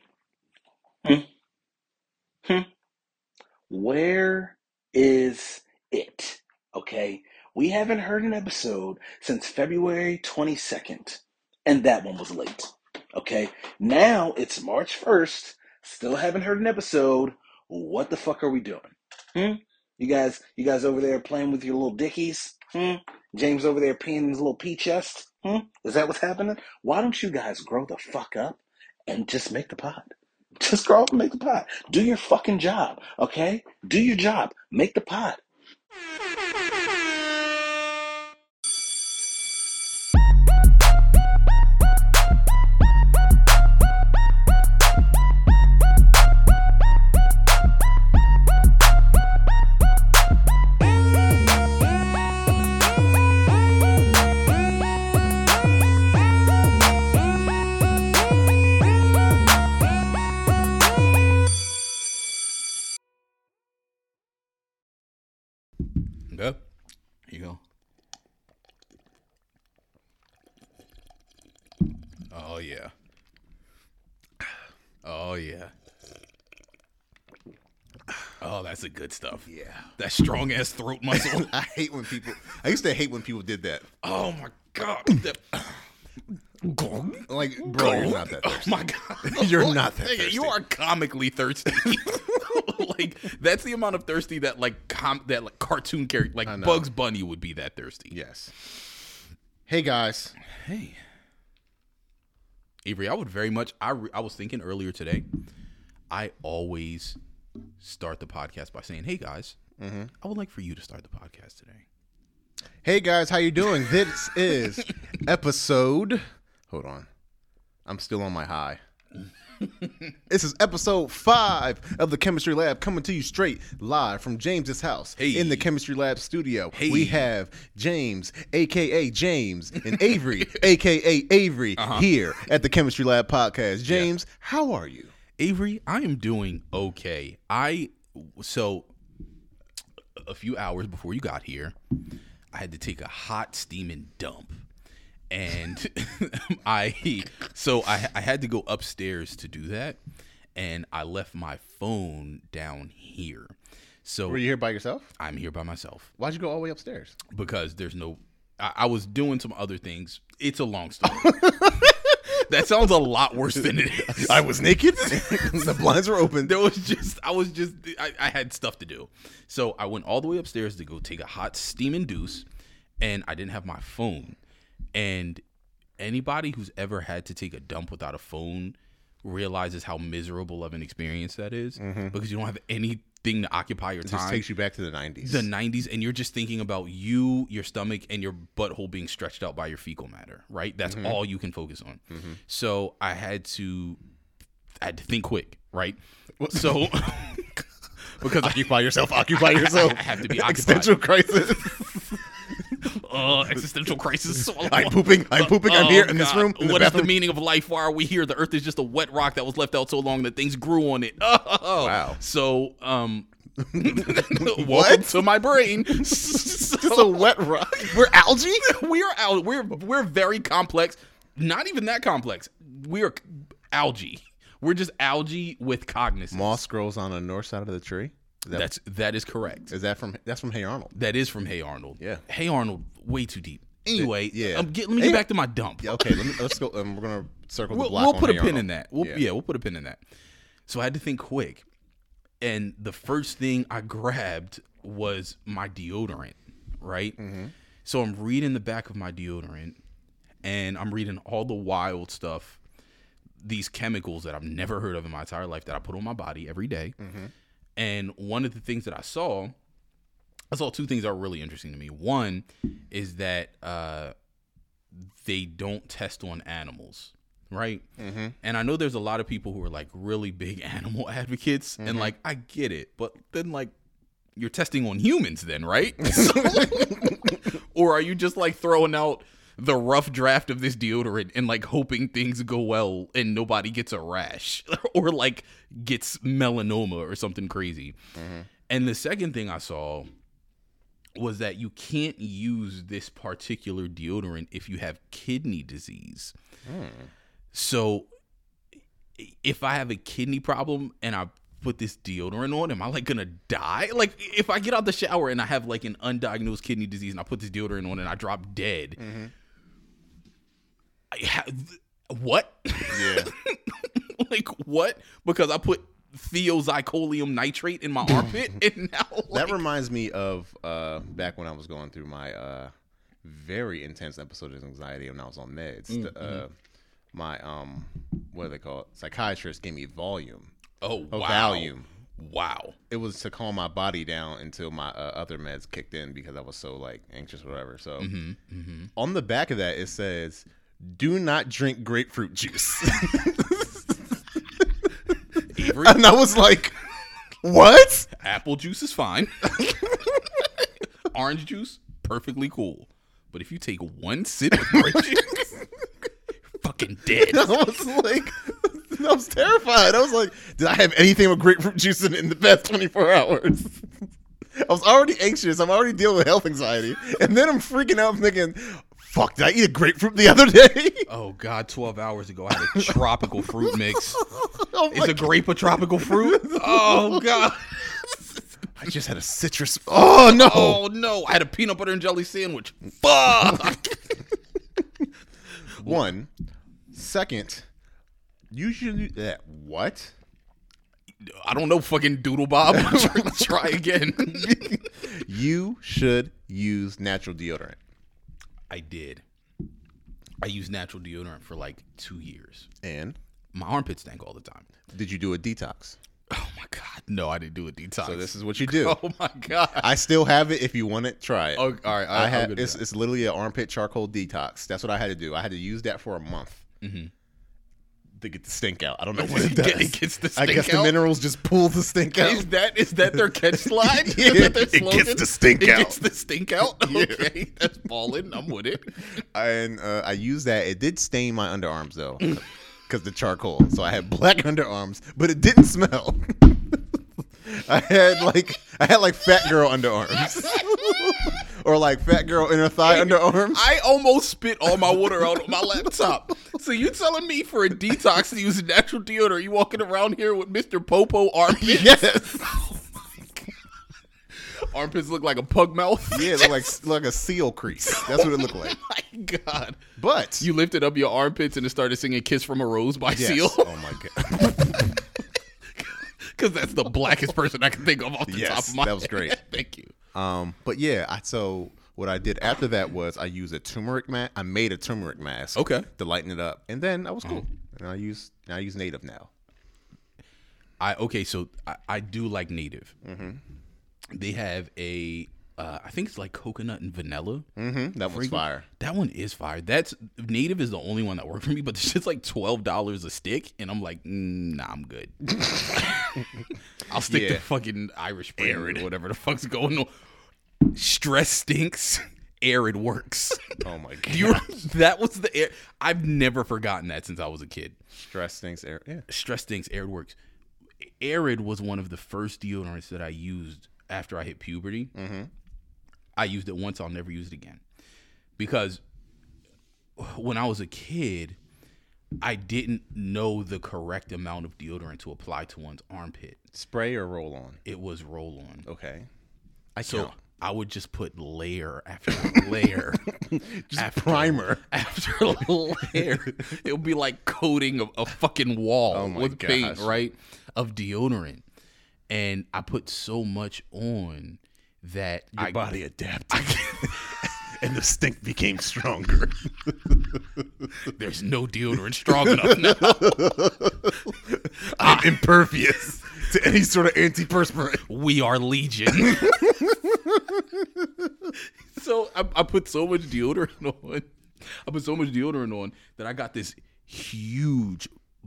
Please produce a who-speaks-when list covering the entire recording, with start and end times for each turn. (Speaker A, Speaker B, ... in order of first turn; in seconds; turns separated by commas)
Speaker A: 3.7-35.4, Speaker B: 66.3-66.6, Speaker B: 67.3-67.6, Speaker B: 72.3-72.9, Speaker B: 75.0-75.7, Speaker B: 78.4-81.5, Speaker C: 79.5-79.9, Speaker C: 81.1-83.9, Speaker B: 84.0-85.6, Speaker C: 86.6-90.6, Speaker B: 87.7-98.2, Speaker C: 96.5-96.9, Speaker C: 98.1-98.5, Speaker C: 99.7-100.3, Speaker B: 100.4-101.0, Speaker B: 102.8-105.3, Speaker B: 106.1-107.2, Speaker B: 107.8-109.6, Speaker C: 109.8-110.1, Speaker B: 110.2-111.8, Speaker C: 112.8-117.1, Speaker C: 117.8-118.8, Speaker C: 120.3-135.1, Speaker B: 125.2-125.7, Speaker B: 126.7-127.2, Speaker B: 129.9-130.6, Speaker B: 131.8-132.1, Speaker B: 135.4-138.9, Speaker B: 140.2-141.8, Speaker B: 142.5-144.6, Speaker B: 145.3-150.0, Speaker B: 150.6-154.4, Speaker C: 154.3-155.1, Speaker B: 155.2-156.1, Speaker C: 156.2-157.2, Speaker B: 157.3-165.8, Speaker C: 161.2-161.9, Speaker C: 163.5-166.6, Speaker B: 166.4-172.5, Speaker B: 173.0-174.4, Speaker B: 174.9-175.4, Speaker B: 176.0-184.4, Speaker C: 181.8-182.2, Speaker C: 184.1-185.5, Speaker B: 185.2-194.0, Speaker C: 190.9-191.2, Speaker C: 192.1-192.4, Speaker B: 194.8-196.0, Speaker C: 196.4-197.4, Speaker B: 196.5-197.5, Speaker B: 198.2-198.7, Speaker C: 198.2-202.8, Speaker B: 199.3-201.0, Speaker B: 202.8-217.3, Speaker C: 203.4-203.7, Speaker C: 204.4-207.1, Speaker C: 211.8-212.2, Speaker C: 213.7-218.7, Speaker B: 218.6-226.6, Speaker C: 226.3-228.7, Speaker B: 228.5-229.7, Speaker C: 229.7-230.9, Speaker B: 230.9-236.4, Speaker C: 233.9-235.2, Speaker C: 235.8-239.2, Speaker B: 237.7-240.0, Speaker B: 240.7-241.7, Speaker B: 242.4-247.2, Speaker C: 247.2-247.5, Speaker B: 247.8-249.8, Speaker B: 250.4-252.6, Speaker B: 253.4-256.9, Speaker C: 257.0-257.3, Speaker B: 257.8-259.6, Speaker B: 260.5-264.1, Speaker B: 264.9-267.9, Speaker C: 268.0-268.3, Speaker B: 268.4-273.7, Speaker C: 271.8-272.1, Speaker B: 274.4-288.0, Speaker C: 276.1-277.2, Speaker C: 288.1-288.5, Speaker B: 288.7-290.1, Speaker B: 291.2-296.3, Speaker C: 296.7-297.1, Speaker B: 297.5-298.1, Speaker B: 299.2-309.0, Speaker C: 309.0-309.3, Speaker B: 311.1-319.6, Speaker C: 312.9-313.3, Speaker C: 319.3-322.7, Speaker C: 323.2-326.5, Speaker B: 325.9-326.4, Speaker C: 327.1-330.5, Speaker B: 330.8-332.8, Speaker C: 331.1-331.9, Speaker C: 332.9-338.1, Speaker B: 338.0-338.9, Speaker C: 338.9-344.7, Speaker B: 345.5-346.1, Speaker C: 345.6-346.8, Speaker C: 347.4-348.1, Speaker B: 348.1-349.8, Speaker C: 349.6-350.4, Speaker B: 351.1-355.5, Speaker C: 354.6-355.4, Speaker B: 356.6-357.5, Speaker C: 357.1-363.9, Speaker C: 364.6-371.1, Speaker B: 371.1-374.3, Speaker C: 372.6-377.5, Speaker B: 374.9-378.1, Speaker C: 378.7-380.8, Speaker B: 380.2-384.0, Speaker C: 383.5-383.7, Speaker C: 385.8-386.3, Speaker C: 386.9-387.7, Speaker C: 388.5-390.1, Speaker B: 391.2-394.8, Speaker C: 392.7-393.6, Speaker C: 394.2-397.8, Speaker B: 398.7-399.2, Speaker B: 400.4-402.7, Speaker C: 402.8-403.2, Speaker B: 403.5-404.7, Speaker C: 404.9-406.0, Speaker B: 406.3-409.9, Speaker C: 408.0-409.0, Speaker C: 409.8-416.6, Speaker B: 411.6-412.8, Speaker B: 416.8-417.1, Speaker C: 418.2-422.5, Speaker B: 419.2-421.0, Speaker B: 422.2-429.2, Speaker C: 423.1-426.0, Speaker C: 426.6-427.3, Speaker C: 429.2-436.8, Speaker C: 437.4-443.7, Speaker B: 442.9-452.1, Speaker C: 451.5-452.9, Speaker B: 454.4-456.7, Speaker C: 456.1-458.8, Speaker B: 457.9-459.8, Speaker C: 460.0-460.5, Speaker B: 460.4-463.8, Speaker C: 463.1-465.0, Speaker B: 465.8-469.9, Speaker C: 468.3-469.4, Speaker C: 470.1-479.3, Speaker B: 475.6-475.9, Speaker B: 480.8-482.9, Speaker C: 483.0-483.4, Speaker B: 484.1-487.5, Speaker C: 487.6-488.7, Speaker B: 488.1-496.2, Speaker C: 495.3-496.2, Speaker B: 496.9-499.9, Speaker C: 497.1-497.4, Speaker C: 498.4-498.9, Speaker B: 500.6-507.8, Speaker C: 503.6-504.5, Speaker C: 507.9-509.1, Speaker B: 509.1-510.2, Speaker B: 510.8-514.9, Speaker C: 514.9-515.3, Speaker B: 516.2-517.6, Speaker B: 518.4-518.8, Speaker B: 520.0-521.4, Speaker B: 522.2-526.4, Speaker C: 526.5-527.6, Speaker B: 527.6-528.6, Speaker C: 528.6-529.1, Speaker C: 529.8-530.1, Speaker B: 529.8-533.1, Speaker C: 532.2-534.6, Speaker B: 533.7-541.4, Speaker C: 536.0-536.3, Speaker C: 538.9-540.0, Speaker B: 542.1-545.7, Speaker C: 545.3-550.2, Speaker B: 546.3-547.1, Speaker B: 550.8-553.4, Speaker C: 552.1-557.9, Speaker B: 554.8-555.1, Speaker B: 557.9-559.7, Speaker C: 558.9-561.3, Speaker B: 561.6-567.9